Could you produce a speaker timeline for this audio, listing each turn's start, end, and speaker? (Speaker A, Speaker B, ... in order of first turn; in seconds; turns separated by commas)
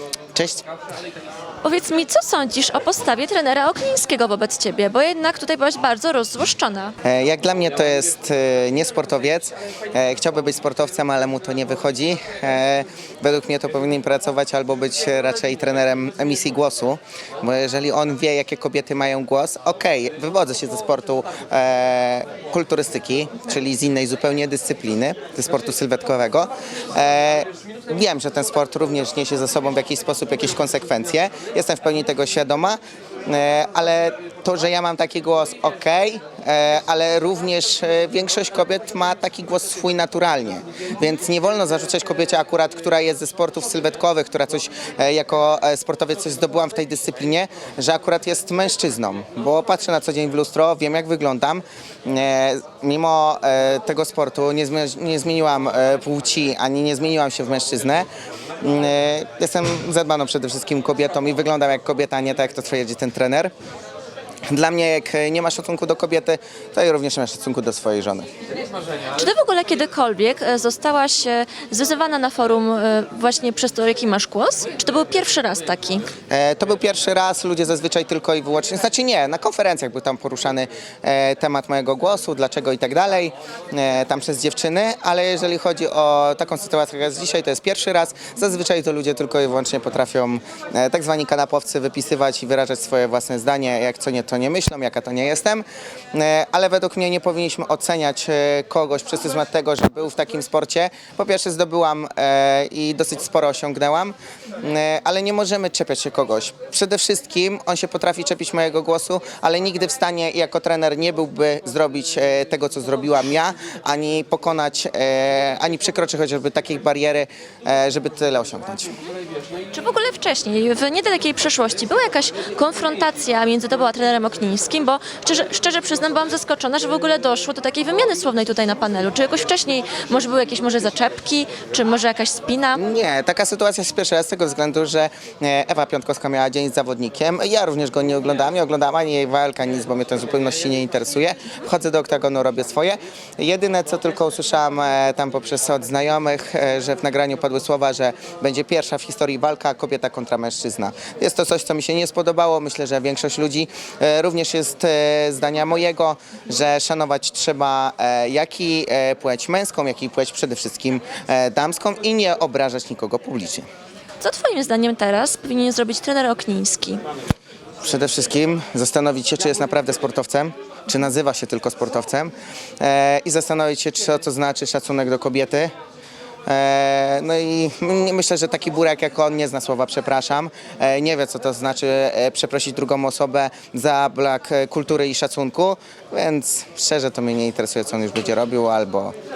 Speaker A: 0.3-0.6, Speaker B: 1.6-6.9, Speaker A: 7.0-58.1, Speaker A: 58.6-63.5, Speaker A: 64.5-68.3, Speaker B: 69.1-76.0, Speaker A: 76.3-118.9, Speaker B: 119.7-132.8, Speaker A: 132.8-163.7, Speaker B: 164.2-167.0, Speaker A: 167.8-175.7, Speaker A: 176.4-189.1